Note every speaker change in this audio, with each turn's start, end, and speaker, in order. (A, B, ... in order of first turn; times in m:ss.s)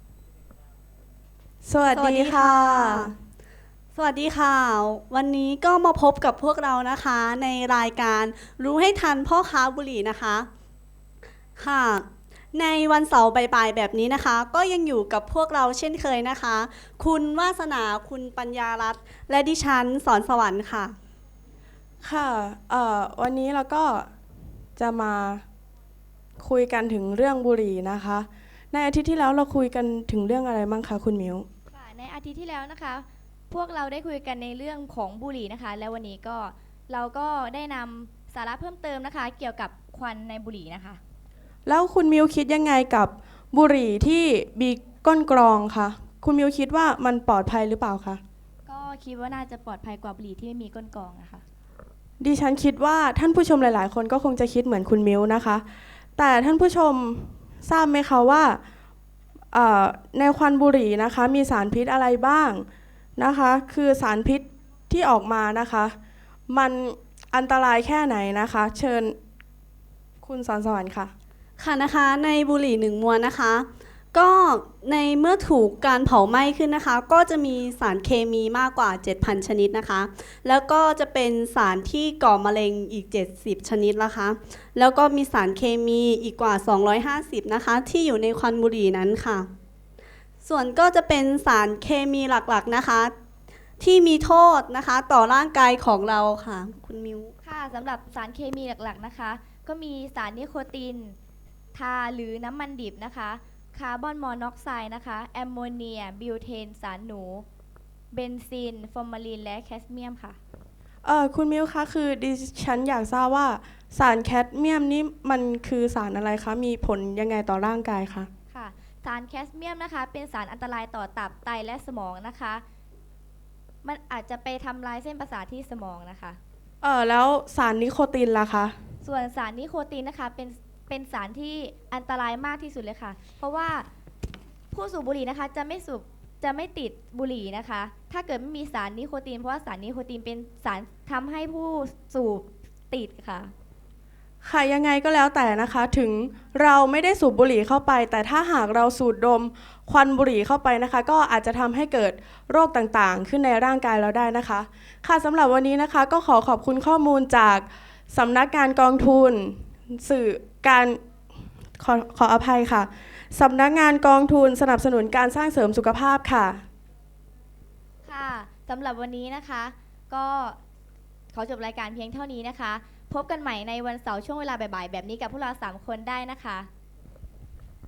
0:01.6-0:03.1 A
0:01.9-0:03.1 B
0:03.9-0:10.5 B
0:11.6-0:20.9 B
0:22.0-0:24.1 A
0:24.8-0:25.4 A
0:26.4-0:31.4 A
0:31.7-0:41.0 C
0:41.6-0:48.2 A
0:48.6-0:51.4 C
0:52.2-0:55.6 A
0:56.2-0:58.6 A
0:59.5-1:02.6 A
1:03.2-1:06.0 A
1:06.5-1:09.2 A
1:10.2-1:11.1 A
1:11.6-1:29.5 B
1:30.4-1:33.1 B
1:33.8-1:37.3 B
1:37.4-1:41.2 C
1:41.7-1:47.4 C
1:48.1-1:50.4 C
1:51.0-1:58.3 A
1:58.5-2:02.6 C
2:03.8-2:06.4 C
2:06.8-2:08.8 A
2:09.0-2:13.9 C
2:14.7-2:23.5 C
2:24.4-2:41.0 A
2:41.8-2:46.6 A
2:48.0-2:50.6 C
2:51.3-2:56.7 C